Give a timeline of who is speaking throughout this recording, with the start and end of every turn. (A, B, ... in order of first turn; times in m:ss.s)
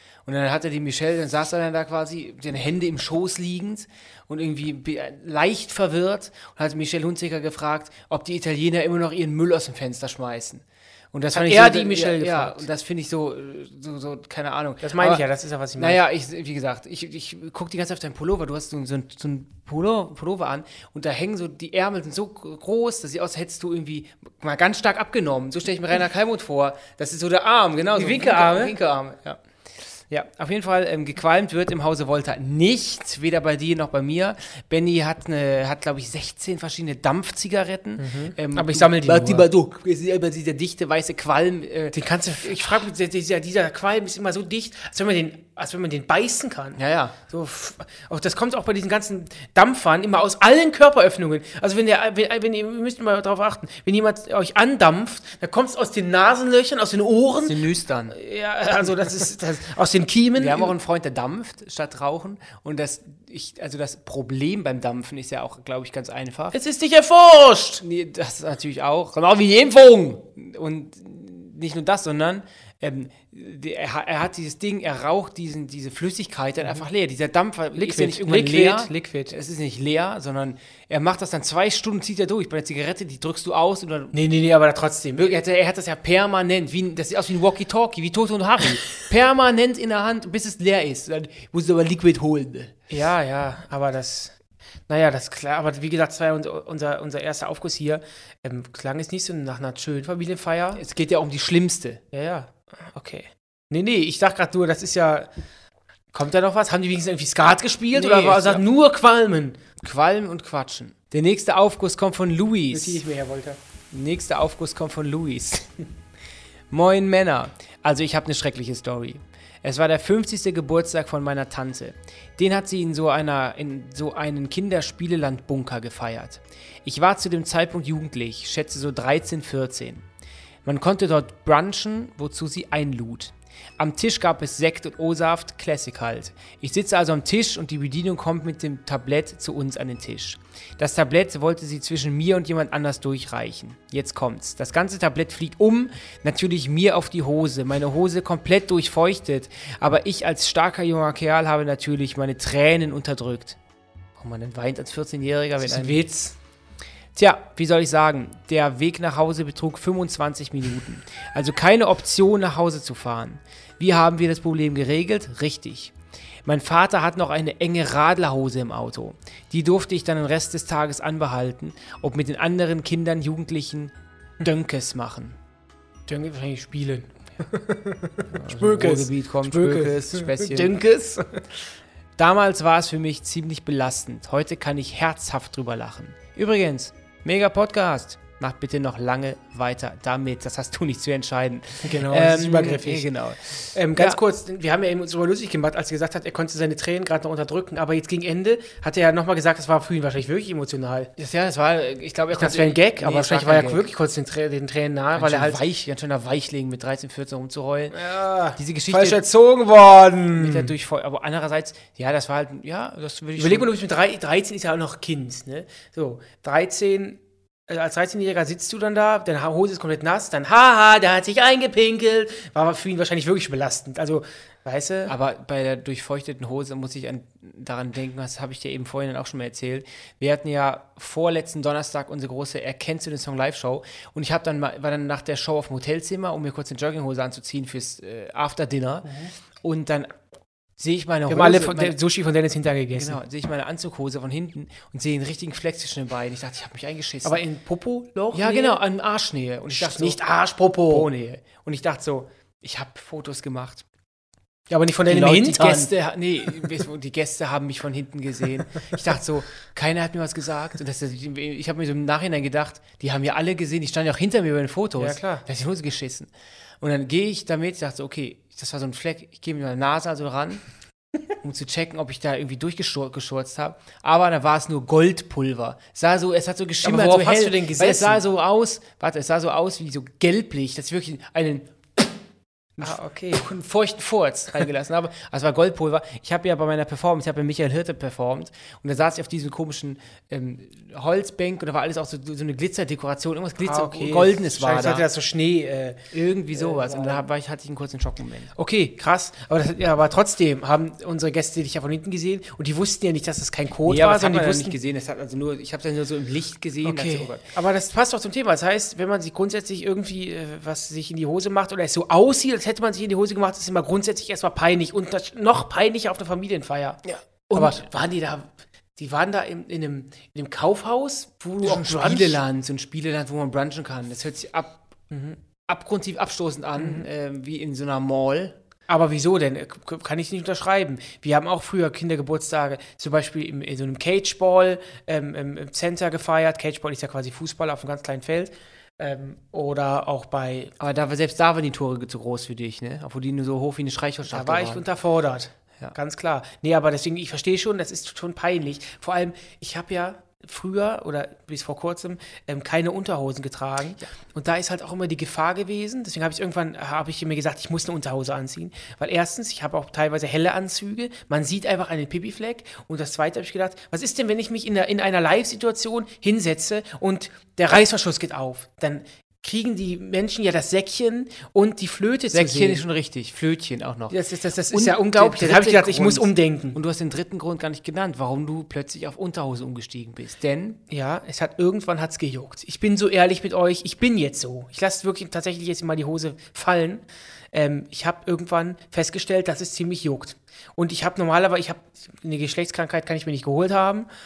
0:00.2-0:15.2 A
0:11.3-0:12.6 B
0:14.8-0:16.0 B
0:15.8-0:42.8 A
0:28.0-0:28.7 B
0:38.0-0:39.5 B
0:41.9-0:57.6 B
0:46.8-0:47.2 A
0:57.4-0:58.1 A
0:58.1-1:00.7 B
1:00.4-1:06.6 A
1:06.5-1:07.8 B
1:07.8-1:24.1 A
1:17.8-1:19.3 B
1:24.1-1:25.4 B
1:25.2-1:32.7 A
1:32.9-1:34.4 B
1:34.9-1:40.8 B
1:40.7-1:42.0 A
1:42.1-1:45.3 B
1:46.1-1:49.6 B
1:47.9-1:48.6 A
1:49.8-1:53.0 A
1:52.7-1:53.6 B
1:53.9-1:55.7 A
1:56.7-2:10.0 A
2:10.6-2:33.6 A
2:34.2-2:36.0 A
2:35.6-2:36.4 B
2:37.1-2:45.9 A
2:46.4-2:55.4 A
2:56.1-3:01.4 B
2:58.3-3:00.7 A
3:02.2-3:14.2 A
3:11.8-3:13.1 B
3:13.7-3:21.1 B
3:21.2-3:23.9 A
3:22.3-3:25.6 B
3:25.1-3:28.0 A
3:27.9-3:30.7 B
3:28.6-3:29.2 A
3:30.3-3:33.7 A
3:33.4-3:45.1 B
3:45.1-3:59.1 A
3:59.0-3:59.3 B
3:59.6-4:00.1 A
4:00.8-4:02.0 A
4:01.3-4:03.2 B
4:02.9-4:07.4 A
4:07.2-4:08.8 B
4:08.3-4:10.2 A
4:09.7-4:11.1 B
4:10.9-4:13.8 A
4:14.7-4:15.9 B
4:15.1-4:26.3 A
4:25.0-4:25.4 B
4:26.8-4:30.7 A
4:31.4-4:42.1 A
4:36.8-4:38.2 B
4:42.8-4:55.1 A
4:42.8-4:43.5 B
4:53.6-4:57.2 B
4:56.1-4:58.5 A
4:58.6-5:04.7 B
5:03.9-5:07.4 A
5:06.8-5:17.0 B
5:17.0-5:17.9 A
5:17.5-5:22.4 B
5:21.6-5:24.8 A
5:25.1-5:25.4 B
5:25.6-5:28.6 A
5:26.8-5:27.0 B
5:28.9-5:40.7 B
5:40.8-5:44.8 A
5:44.3-6:12.8 B
6:12.3-6:20.8 A
6:14.1-6:16.8 B
6:20.9-6:34.1 B